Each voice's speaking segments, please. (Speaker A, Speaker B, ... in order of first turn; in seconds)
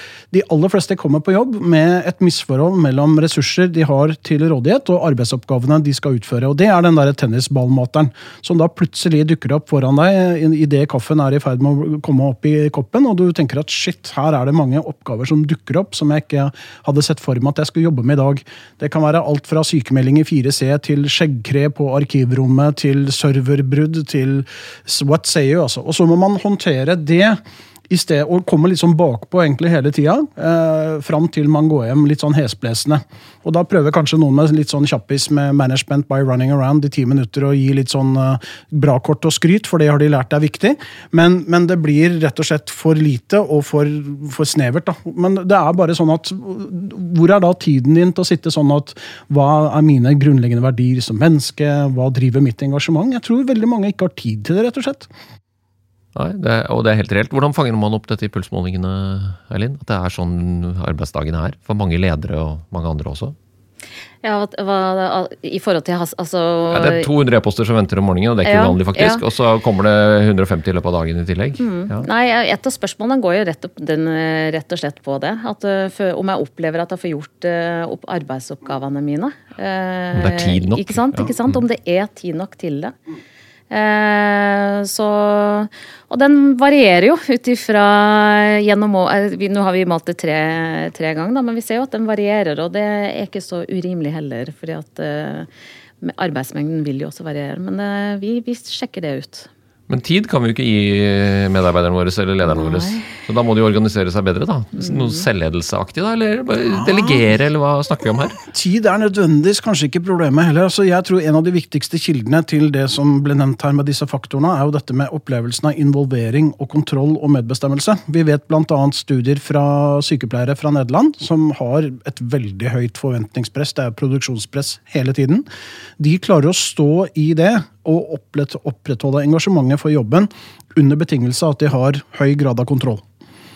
Speaker A: 0.3-55.1, 106.7-107.2, 108.4-125.5, 126.0-133.0
Speaker B: 56.1-63.3, 66.7-72.0, 80.1-81.6, 99.9-108.4
Speaker C: 64.2-67.1, 68.4-69.2, 71.6-82.9, 83.7-95.5, 96.0-99.5, 102.5-103.0, 104.8-105.2